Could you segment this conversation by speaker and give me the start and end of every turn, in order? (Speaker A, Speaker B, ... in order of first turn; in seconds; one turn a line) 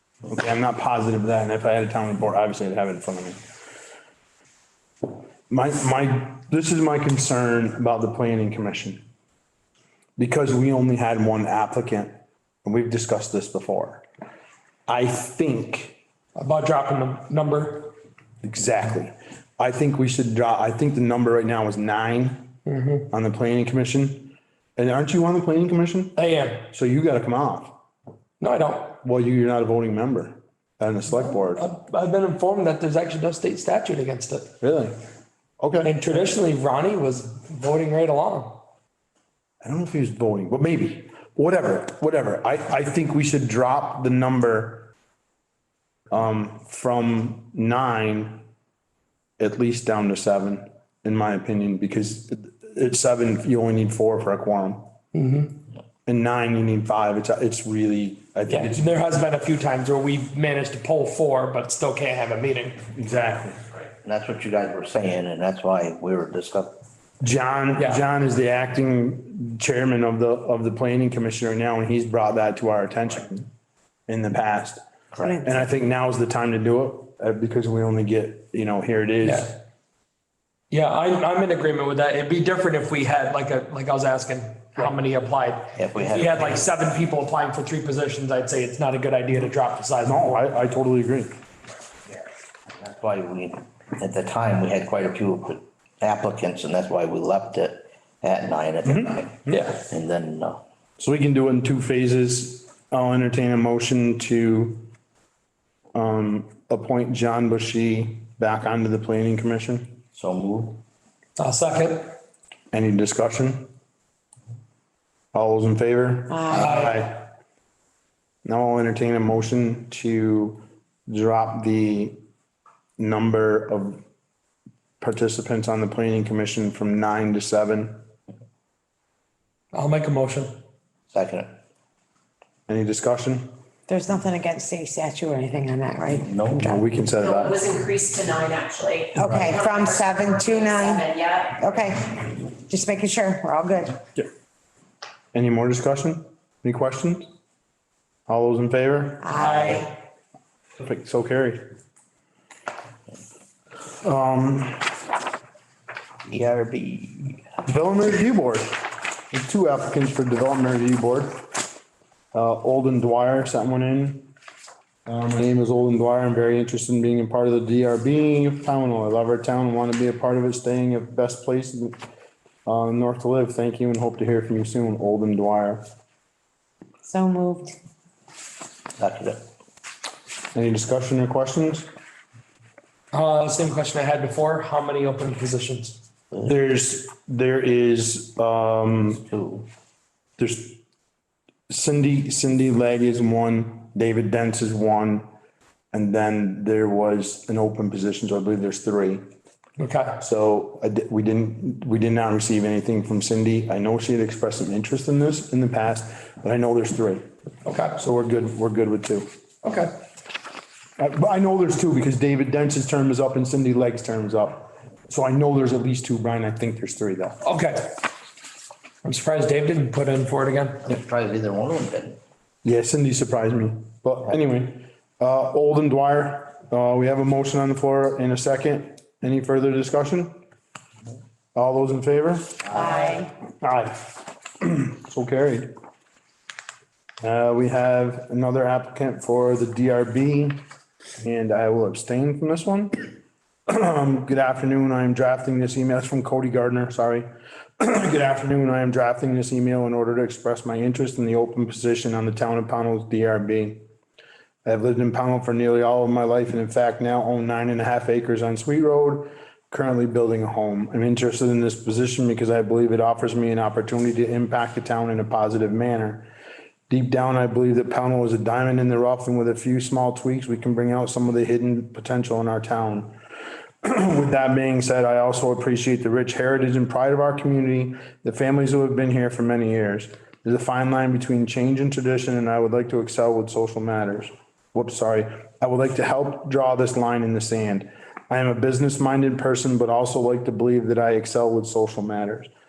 Speaker A: 0.3-3.4
Speaker A: 5.5-9.0
Speaker A: 10.2-12.1
Speaker A: 12.6-14.0
Speaker A: 14.9-16.0
Speaker B: 16.4-17.9
Speaker A: 18.4-22.5
Speaker B: 22.6-23.1
Speaker A: 23.1-26.1
Speaker B: 26.1-26.6
Speaker A: 26.7-27.7
Speaker B: 28.4-29.0
Speaker A: 29.0-31.6
Speaker B: 31.1-34.5
Speaker A: 34.6-35.0
Speaker A: 35.6-35.9
Speaker B: 35.8-38.6
Speaker A: 39.6-44.9
Speaker A: 46.1-48.4
Speaker A: 49.4-54.8
Speaker B: 55.1-55.5
Speaker A: 56.1-59.0
Speaker B: 58.5-62.8
Speaker A: 62.9-63.6
Speaker C: 64.0-66.8
Speaker A: 67.2-73.5
Speaker B: 67.8-68.0
Speaker A: 74.1-74.8
Speaker C: 75.1-75.4
Speaker A: 75.4-79.6
Speaker B: 79.2-79.5
Speaker B: 80.7-90.4
Speaker C: 85.7-86.7
Speaker A: 90.0-91.3
Speaker C: 92.7-100.6
Speaker A: 98.8-99.5
Speaker B: 99.5-99.8
Speaker A: 101.0-104.9
Speaker A: 105.9-110.0
Speaker C: 110.1-110.8
Speaker B: 111.4-112.2
Speaker A: 112.7-113.7
Speaker A: 115.3-117.2
Speaker D: 116.3-116.9
Speaker B: 116.5-117.0
Speaker A: 118.4-122.2
Speaker A: 123.0-124.0
Speaker A: 125.0-128.0
Speaker B: 129.7-130.5
Speaker C: 131.1-131.5
Speaker A: 132.7-133.5
Speaker D: 133.9-136.8
Speaker C: 136.1-136.8
Speaker A: 136.6-137.6
Speaker E: 137.2-141.6
Speaker D: 139.2-144.0
Speaker A: 145.3-147.3
Speaker A: 148.3-149.5
Speaker D: 149.2-149.9
Speaker A: 150.8-151.6
Speaker A: 154.0-154.9
Speaker C: 156.2-157.4
Speaker A: 157.6-161.4
Speaker A: 162.3-164.3
Speaker A: 165.1-172.0
Speaker A: 172.7-175.8
Speaker D: 177.1-177.7
Speaker C: 179.0-179.4
Speaker A: 180.5-181.9
Speaker B: 183.1-186.0
Speaker A: 186.4-189.2
Speaker C: 189.2-189.7
Speaker A: 190.4-190.8
Speaker A: 191.7-195.3
Speaker A: 195.9-199.2
Speaker B: 199.8-200.2
Speaker A: 200.2-207.2
Speaker B: 207.6-208.0
Speaker A: 207.9-209.3
Speaker B: 209.6-209.9
Speaker A: 211.0-217.4
Speaker B: 217.4-218.0
Speaker B: 219.0-220.8
Speaker C: 220.8-222.2
Speaker A: 222.6-230.4
Speaker A: 231.5-232.9
Speaker D: 232.7-233.3
Speaker A: 233.6-235.7
Speaker A: 237.2-240.6
Speaker A: 241.2-243.0
Speaker A: 243.7-247.3
Speaker A: 247.8-253.8
Speaker A: 254.6-266.2
Speaker A: 266.9-273.1
Speaker A: 273.8-292.5